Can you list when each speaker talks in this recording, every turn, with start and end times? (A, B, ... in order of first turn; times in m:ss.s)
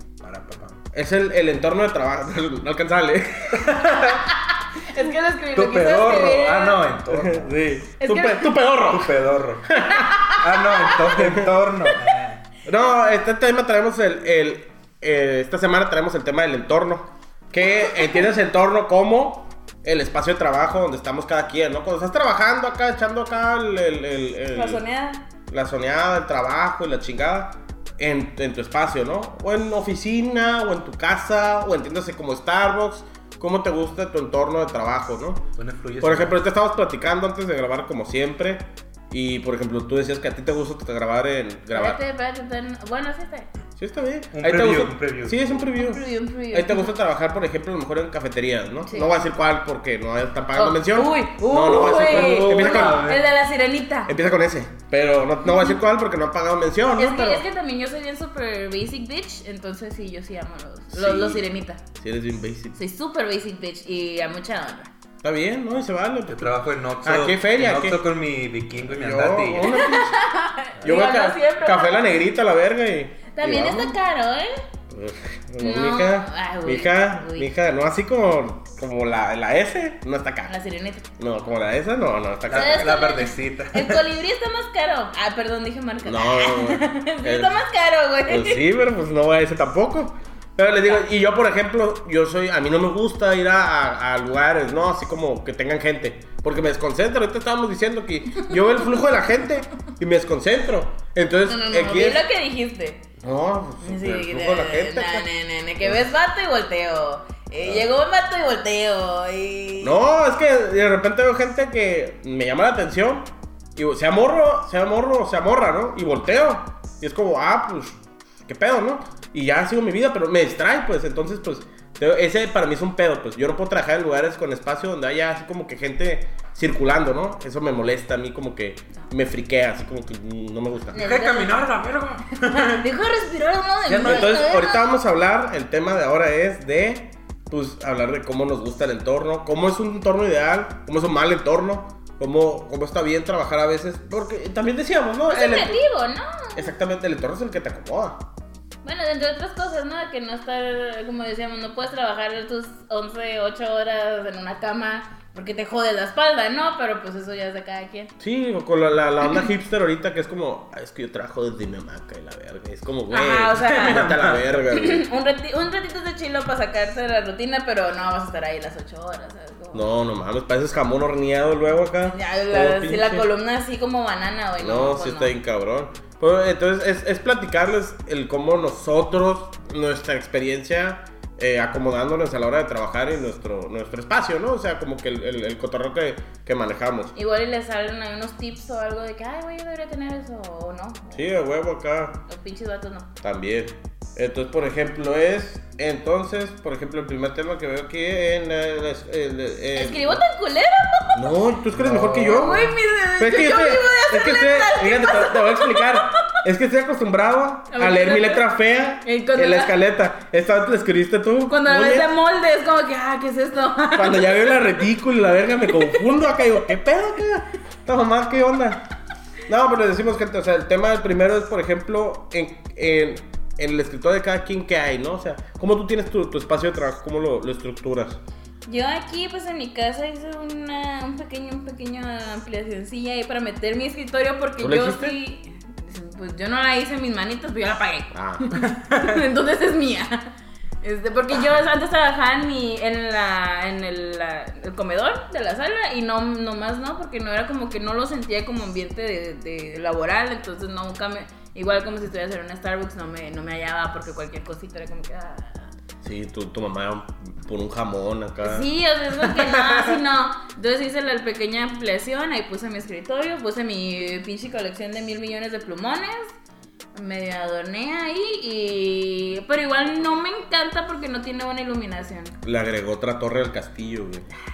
0:00.2-0:00.8 A
0:00.9-0:04.0 B
0:03.6-0:04.3 A
0:04.8-0:06.9 C
0:05.5-0:07.6 A
0:07.1-0:10.5 B
0:08.0-0:08.6 C
0:08.8-0:12.4 A
0:10.0-0:11.0 C
0:11.2-0:11.5 B
0:12.6-0:24.8 B
0:24.5-0:25.2 C
0:25.5-0:35.4 B
0:35.6-0:36.4 A
0:36.0-0:42.0 B
0:41.7-0:43.5 C
0:43.8-0:53.2 B
0:44.3-0:45.7 A
0:45.8-0:46.9 C
0:48.8-0:49.2 C
0:50.6-0:54.1 C
0:51.9-0:53.3 A
0:54.1-0:57.4 B
0:55.4-0:55.7 C
0:57.0-1:01.8 C
1:00.9-1:01.4 B
1:02.0-1:02.8 B
1:02.8-1:04.9 C
1:05.2-1:06.5 B
1:06.3-1:09.8 A
1:07.0-1:08.0 B
1:08.9-1:10.2 B
1:09.6-1:12.1 C
1:10.8-1:14.0 B
1:13.3-1:14.6 C
1:14.9-1:20.5 B
1:15.6-1:17.5 C
1:20.5-1:21.0 C
1:21.2-1:23.1 B
1:22.5-1:24.1 A
1:22.5-1:28.6 C
1:26.0-1:27.6 B
1:28.3-1:42.2 B
1:41.4-1:43.0 C
1:43.2-1:45.3 B
1:43.8-1:50.0 C
1:47.6-1:47.9 B
1:49.8-2:11.0 B
2:10.9-2:11.6 C
2:10.9-2:12.8 A
2:12.5-2:14.9 C
2:13.8-2:14.4 A
2:14.0-2:25.8 B
2:25.3-2:26.7 C
2:26.6-2:28.3 B
2:28.8-2:38.1 C
2:38.2-2:45.1 B
2:43.1-2:44.1 C
2:43.6-2:44.6 A
2:44.7-2:49.8 C
2:49.7-2:53.3 B
2:52.1-2:55.3 C
2:54.6-3:07.1 B
3:07.2-3:11.3 C
3:11.1-3:12.2 B
3:12.3-3:13.1 C
3:13.2-3:20.2 B
3:19.8-3:21.2 C
3:21.1-3:32.1 B
3:21.7-3:22.6 A
3:22.2-3:26.1 C
3:27.7-3:28.4 C
3:29.0-3:29.8 C
3:31.5-3:34.7 C
3:34.0-3:38.9 B
3:39.5-3:48.2 B
3:48.7-4:00.3 C
3:54.6-3:55.2 B
3:58.1-3:58.6 B
4:00.8-4:15.7 C
4:16.0-4:18.7 B
4:18.4-4:26.3 C
4:19.3-4:20.0 A
4:26.9-4:32.4 C
4:32.4-4:34.3 B